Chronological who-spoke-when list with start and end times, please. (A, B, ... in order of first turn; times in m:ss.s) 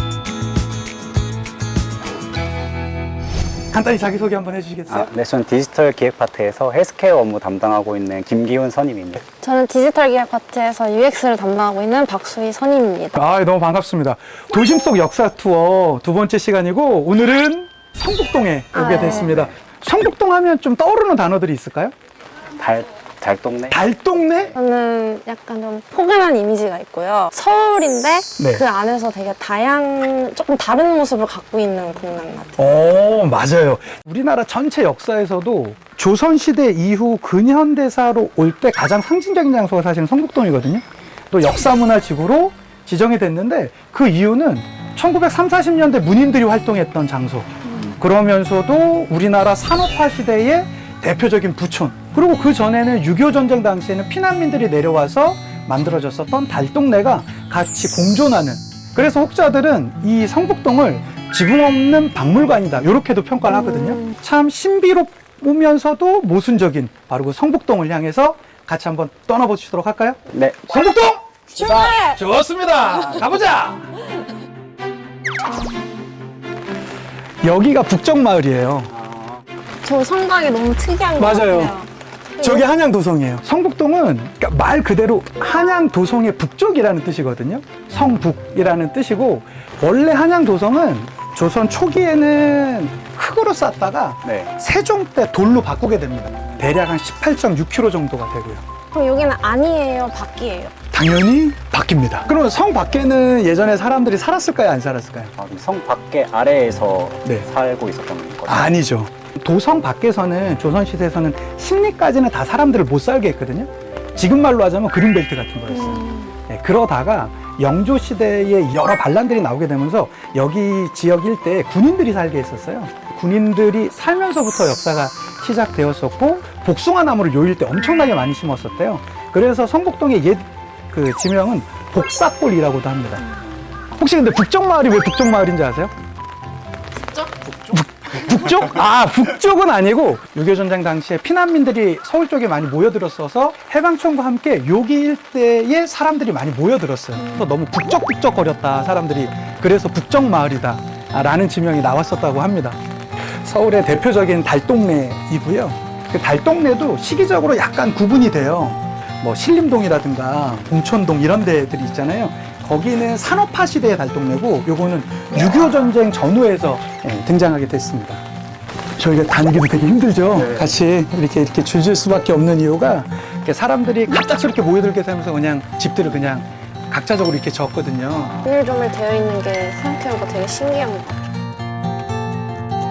0:03.7-0:05.1 A
0:04.9-0:09.2 B
0:09.4-0:13.2 C
0:13.2-0:21.9 A
0:18.8-0:19.3 C
0:19.2-0:19.5 B
0:22.6-0:23.8 B
0:23.7-0:24.6 A
0:24.6-0:32.7 C
0:28.4-0:28.6 A
0:32.6-1:13.9 A
1:10.3-1:10.7 B
1:11.6-1:12.2 C
1:17.4-1:18.9 A
1:19.0-1:19.4 B
1:19.8-1:22.7 C
1:21.2-1:21.8 A
1:22.4-1:38.6 A
1:34.2-1:34.5 B
1:38.9-1:40.7 C
1:40.9-1:45.3 A
1:45.4-1:48.8 B
1:48.5-2:13.2 A
1:55.9-1:56.3 C
2:13.9-2:15.9 A
2:17.6-2:32.8 A
2:33.4-2:48.2 A
2:49.0-2:58.4 A
2:50.4-2:50.6 B
2:58.4-3:01.2 C